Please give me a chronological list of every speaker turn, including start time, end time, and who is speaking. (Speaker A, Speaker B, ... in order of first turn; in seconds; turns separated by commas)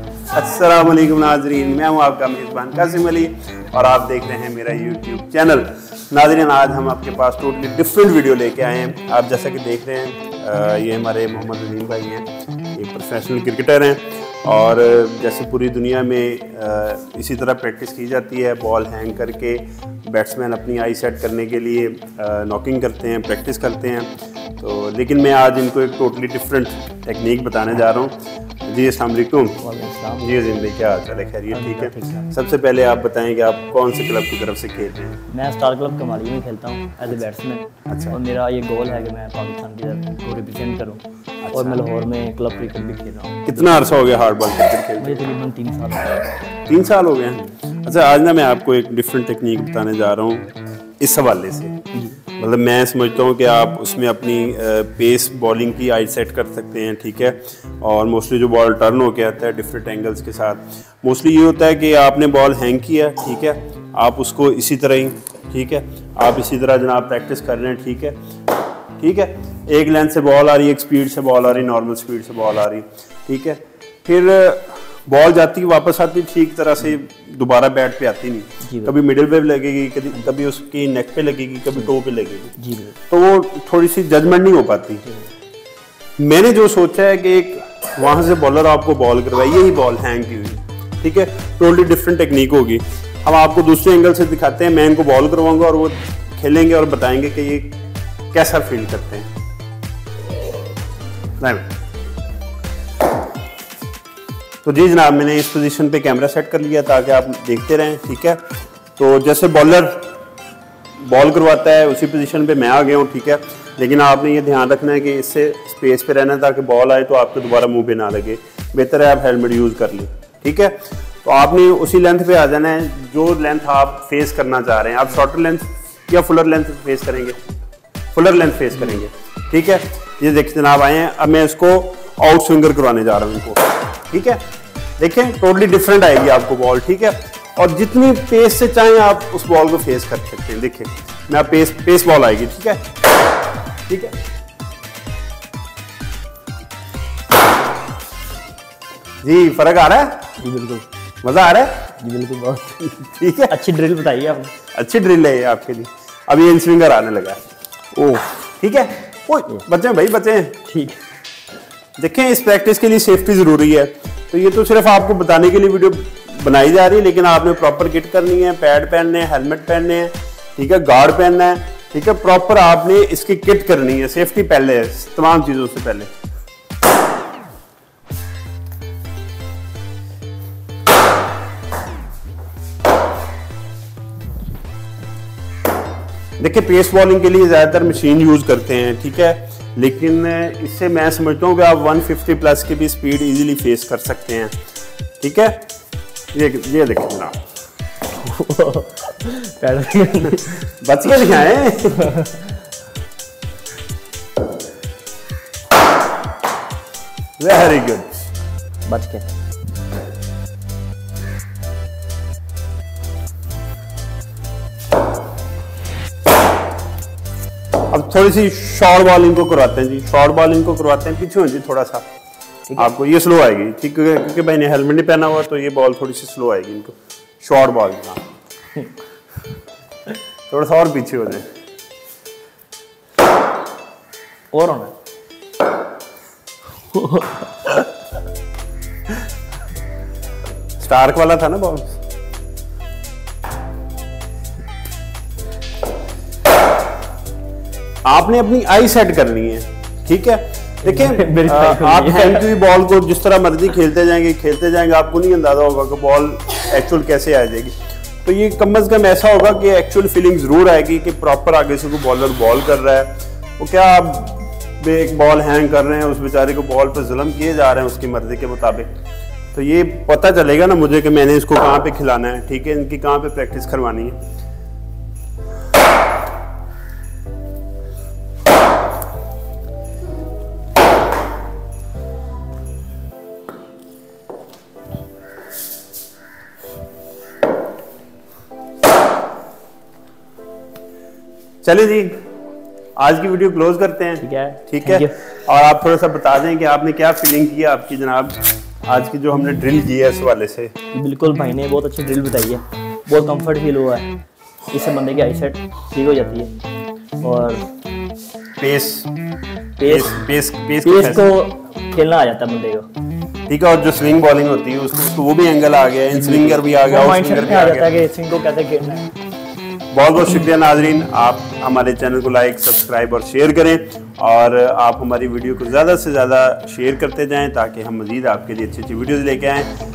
Speaker A: 0.3-29.6, Speaker B: 29.6-30.3, Speaker A: 30.2-35.2, Speaker B: 31.5-32.3, Speaker B: 35.3-43.7, Speaker A: 37.9-38.1, Speaker A: 41.4-41.8, Speaker A: 43.5-45.3, Speaker B: 45.0-46.4, Speaker A: 46.7-51.8, Speaker B: 51.9-52.2, Speaker A: 52.4-68.2, Speaker A: 69.0-82.5, Speaker B: 78.6-79.0, Speaker B: 82.6-83.0, Speaker A: 83.1-85.0, Speaker A: 86.2-97.8, Speaker A: 98.3-99.3, Speaker A: 101.4-101.7, Speaker A: 104.6-108.4, Speaker A: 109.0-110.1, Speaker A: 111.0-127.3, Speaker A: 128.1-134.4, Speaker A: 135.0-142.8, Speaker A: 143.9-144.1, Speaker A: 149.2-150.3, Speaker B: 150.4-150.8, Speaker A: 151.2-151.8, Speaker B: 152.0-154.5, Speaker A: 153.1-153.6, Speaker A: 154.7-157.4, Speaker B: 157.9-158.5, Speaker A: 158.6-160.6, Speaker B: 160.7-161.0, Speaker A: 162.0-176.1, Speaker A: 186.4-194.5, Speaker A: 195.2-195.6, Speaker A: 196.3-197.4, Speaker B: 198.1-200.7, Speaker A: 200.8-202.1, Speaker B: 201.9-202.5, Speaker A: 207.4-208.3, Speaker B: 208.9-209.2, Speaker A: 217.9-222.1, Speaker A: 222.8-228.2, Speaker A: 230.5-231.4, Speaker B: 234.5-234.9, Speaker B: 236.9-237.8, Speaker A: 240.8-242.0, Speaker A: 248.0-257.7, Speaker B: 250.8-252.5, Speaker A: 258.2-268.9, Speaker A: 269.5-274.2, Speaker A: 291.6-292.2, Speaker A: 293.0-300.7, Speaker B: 294.2-295.1, Speaker B: 300.9-304.1, Speaker B: 304.7-306.5, Speaker B: 307.2-307.6, Speaker A: 308.6-309.1, Speaker B: 309.8-310.2, Speaker A: 309.8-311.3, Speaker B: 310.8-312.9, Speaker A: 313.5-317.9, Speaker B: 316.1-319.1, Speaker A: 319.9-329.7